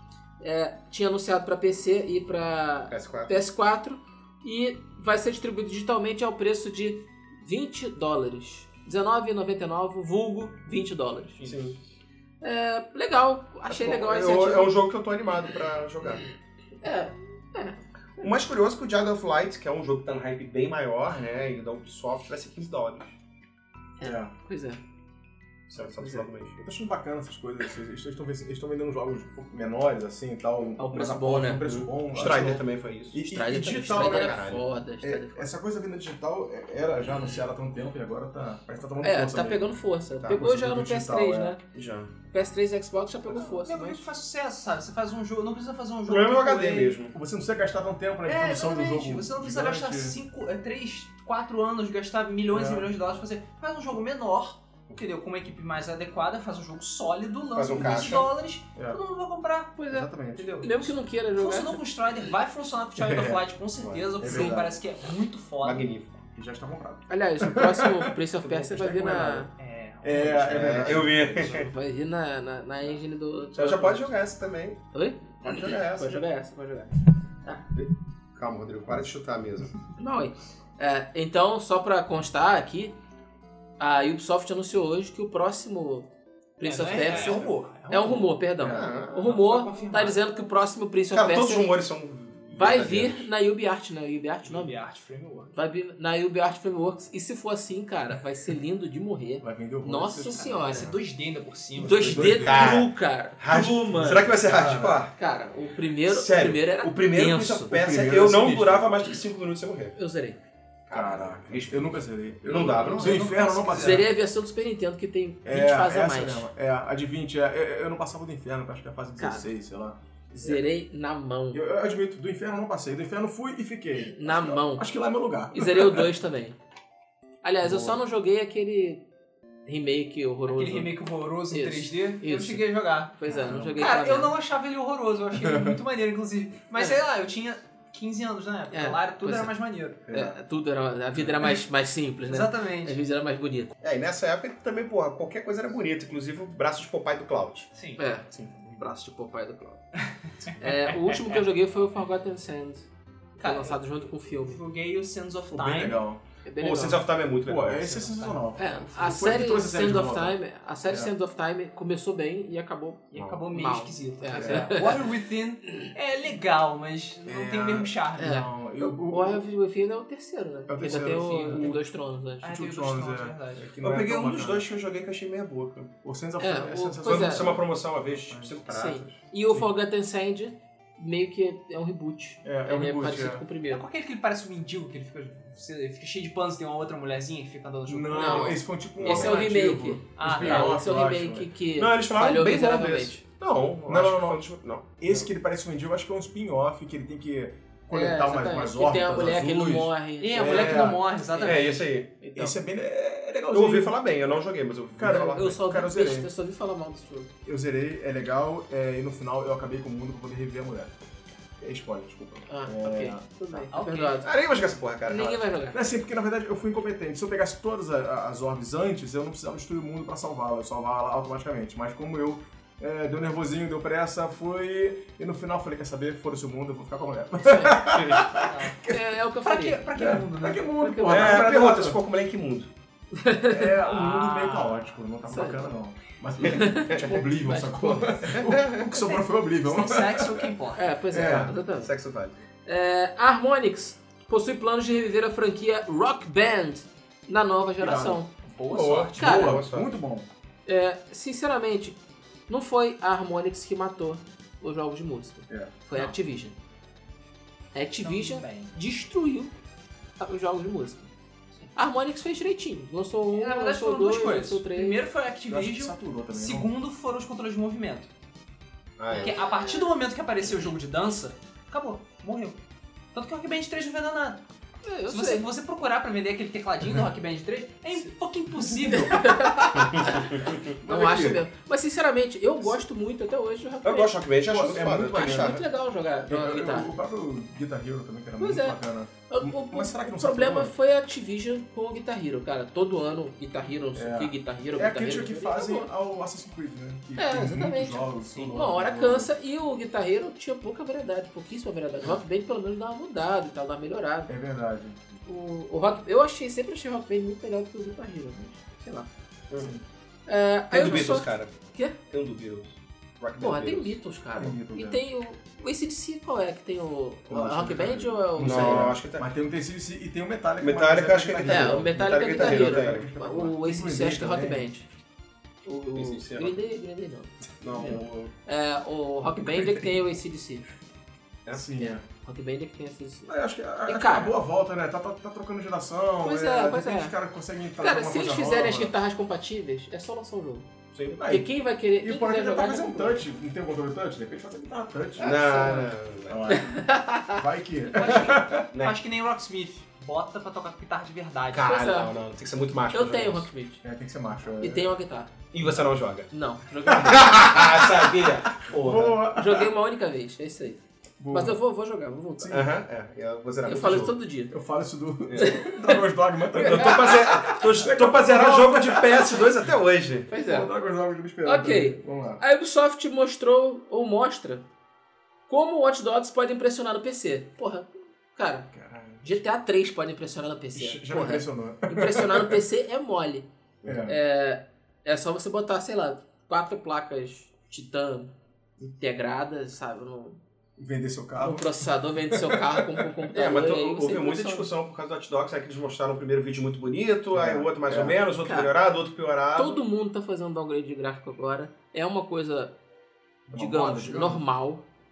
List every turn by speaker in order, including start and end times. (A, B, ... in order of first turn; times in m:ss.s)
0:00.4-0:11.4 A
0:02.9-0:03.4 B
0:11.4-0:11.8 B
0:12.4-0:14.8 A
0:13.7-0:16.2 B
0:16.8-0:18.2 A
0:18.2-0:23.1 B
0:24.0-0:24.8 A
0:24.0-0:24.3 C
0:25.7-0:26.6 B
0:26.0-0:26.2 A
0:26.6-0:34.5 C
0:30.8-0:31.7 A
0:31.6-0:33.2 B
0:33.2-0:35.5 A
0:33.8-0:34.6 B
0:35.0-0:39.7 C
0:39.0-0:41.6 A
0:40.2-0:40.5 B
0:40.3-0:41.6 C
0:41.7-0:42.1 B
0:42.3-0:44.0 A
0:43.3-0:47.0 D
0:46.1-0:47.1 B
0:47.1-0:50.2 C
0:48.2-0:59.7 D
0:52.5-0:52.9 C
0:57.5-0:58.3 B
0:57.8-0:58.1 C
0:59.8-1:01.8 A
0:59.9-1:00.6 C
1:00.3-1:05.9 D
1:03.0-1:03.4 C
1:03.8-1:04.5 B
1:04.2-1:04.8 C
1:05.6-1:06.2 B
1:06.3-1:09.5 C
1:07.1-1:09.5 A
1:09.6-1:11.3 D
1:10.0-1:11.6 C
1:10.4-1:11.7 B
1:11.4-1:14.1 A
1:13.5-1:14.8 B
1:14.9-1:17.7 A
1:15.4-1:16.2 B
1:17.8-1:19.8 B
1:20.0-1:22.9 A
1:23.8-1:31.7 A
1:26.6-1:28.4 D
1:26.9-1:27.5 B
1:28.6-1:28.9 C
1:28.6-1:29.3 B
1:29.2-1:30.2 D
1:31.1-1:33.3 B
1:32.6-1:34.7 A
1:34.4-1:35.5 D
1:35.5-1:40.9 A
1:39.4-1:41.0 C
1:40.4-1:42.4 D
1:41.8-1:42.8 C
1:41.8-1:44.3 A
1:42.4-1:45.1 B
1:44.3-1:45.0 C
1:45.2-1:47.8 A
1:46.0-1:49.9 B
1:47.7-1:49.1 C
1:50.0-1:50.4 A
1:50.9-1:53.3 B
1:50.9-1:54.1 C
1:52.5-1:54.1 D
1:53.7-1:56.5 A
1:55.4-2:00.6 C
1:59.2-1:59.5 A
2:00.3-2:01.6 A
2:01.5-2:06.1 C
2:04.1-2:04.9 A
2:05.5-2:06.6 A
2:07.4-2:09.0 A
2:07.6-2:08.0 C
2:09.6-2:10.9 A
2:10.5-2:13.1 D
2:11.5-2:14.3 A
2:13.3-2:13.8 C
2:13.8-2:20.0 D
2:15.4-2:15.8 C
2:18.7-2:19.5 A
2:20.1-2:23.7 A
2:22.2-2:23.0 D
2:23.8-2:27.7 B
2:27.7-2:28.0 D
2:28.0-2:29.8 A
2:30.4-2:31.4 D
2:30.6-2:32.9 A
2:33.4-2:36.0 D
2:33.4-2:34.6 A
2:35.5-2:36.2 C
2:36.4-2:37.0 A
2:36.6-2:38.3 B
2:37.4-2:41.1 C
2:38.6-2:45.0 A
2:43.1-2:48.4 D
2:43.1-2:43.4 B
2:44.3-2:44.8 C
2:47.2-2:49.4 C
2:48.2-2:52.7 A
2:50.7-2:51.8 C
2:51.0-2:51.7 D
2:52.4-2:53.7 D
2:52.5-2:54.7 C
2:53.8-2:55.9 B
2:56.0-2:58.6 C
2:56.4-2:57.5 A
2:57.0-2:59.2 B
2:58.7-3:03.8 A
3:02.4-3:03.4 C
3:03.7-3:09.5 D
3:07.9-3:11.5 C
3:08.2-3:13.2 A
3:10.2-3:10.8 D
3:11.8-3:15.2 B
3:13.9-3:14.4 C
3:15.0-3:21.0 C
3:17.9-3:20.5 A
3:20.2-3:21.8 D
3:20.4-3:22.1 B
3:22.2-3:22.6 A
3:22.3-3:24.0 C
3:23.5-3:25.5 B
3:25.0-3:26.3 C
3:25.0-3:27.3 A
3:27.4-3:31.0 C
3:31.6-3:33.3 C
3:32.5-3:34.3 A
3:33.7-3:34.2 D
3:34.2-3:35.4 B
3:35.0-3:35.8 A
3:35.7-3:49.0 C
3:47.4-3:47.9 A
3:47.9-3:48.2 B
3:48.3-3:48.8 D
3:48.8-3:49.8 A
3:49.4-3:50.6 D
3:49.9-3:52.0 C
3:50.8-3:51.4 A
3:51.0-3:52.7 B
3:53.1-3:53.7 A
3:53.5-4:00.5 C
3:53.8-3:54.9 D
3:55.3-3:55.6 A
3:56.4-3:58.4 A
3:56.4-3:57.1 B
3:58.3-3:59.0 B
3:59.6-4:00.9 D
4:00.8-4:01.9 A
4:01.1-4:01.6 C
4:01.2-4:02.3 B
4:02.6-4:08.3 A
4:07.8-4:08.2 C
4:08.4-4:09.4 D
4:08.7-4:09.9 B
4:09.1-4:10.3 C
4:09.2-4:09.6 A
4:10.6-4:12.0 A
4:12.5-4:16.5 A
4:15.5-4:15.7 C
4:17.7-4:19.5 A
4:18.0-4:18.7 D
4:20.2-4:21.1 A
4:21.7-4:25.0 A
4:23.3-4:28.1 D
4:25.5-4:26.7 C
4:29.0-4:29.4 B
4:29.1-4:32.6 D
4:33.1-4:34.4 D
4:34.8-4:35.4 A
4:35.1-4:39.7 D
4:38.9-4:44.1 A
4:39.7-4:40.6 B
4:40.5-4:41.4 C
4:43.8-4:45.6 B
4:44.4-4:45.6 C
4:45.0-4:46.9 A
4:46.3-4:50.7 C
4:48.4-4:48.8 A
4:49.3-4:55.9 A
4:53.9-4:59.3 C
4:57.2-5:04.3 A
5:04.3-5:05.2 C
5:05.2-5:09.1 A
5:10.3-5:12.0 A
5:10.7-5:11.5 B
5:12.1-5:14.0 B
5:13.4-5:18.9 A
5:14.4-5:15.0 C
5:17.3-5:24.7 C
5:18.4-5:19.3 B
5:20.6-5:23.1 B
5:21.4-5:24.9 A
5:25.6-5:30.6 A
5:25.9-5:26.5 B
5:27.6-5:28.3 B
5:29.4-5:29.9 C
5:31.5-5:32.0 C
5:31.8-5:33.3 A
5:33.3-5:38.9 C
5:33.8-5:34.3 A
5:36.2-5:37.1 A
5:37.8-5:40.6 A
5:40.9-5:41.2 B
5:41.1-5:45.7 C
5:41.3-5:43.2 A
5:45.2-5:46.6 B
5:45.2-5:45.9 A
5:46.3-5:48.7 C
5:46.5-5:47.4 A
5:47.9-5:51.9 D
5:48.7-5:49.0 B
5:51.5-5:53.5 B
5:51.6-5:52.1 A
5:52.9-5:53.8 A
5:53.8-5:54.9 C
5:54.6-5:55.3 A
5:55.5-5:56.3 B
5:56.3-5:57.6 A
5:56.9-5:59.2 B
5:58.5-5:59.7 C
5:59.4-6:02.6 A
6:01.2-6:01.6 C
6:02.4-6:02.7 C
6:02.5-6:04.1 B
6:03.6-6:04.5 A
6:03.8-6:09.5 C
6:05.3-6:05.6 B
6:05.4-6:06.0 A
6:06.5-6:07.2 A
6:06.6-6:10.3 B
6:10.3-6:10.7 A
6:10.3-6:12.4 C
6:11.4-6:14.6 A
6:15.5-6:18.7 A
6:18.7-6:19.3 C
6:19.2-6:23.5 A
6:20.7-6:22.6 C
6:23.8-6:24.2 C
6:24.0-6:30.4 A
6:30.8-6:33.2 C
6:31.4-6:34.7 A
6:33.3-6:39.8 B
6:37.3-6:38.2 C
6:38.4-6:38.7 A
6:39.5-6:42.7 A
6:43.5-6:44.4 C
6:43.5-6:44.8 A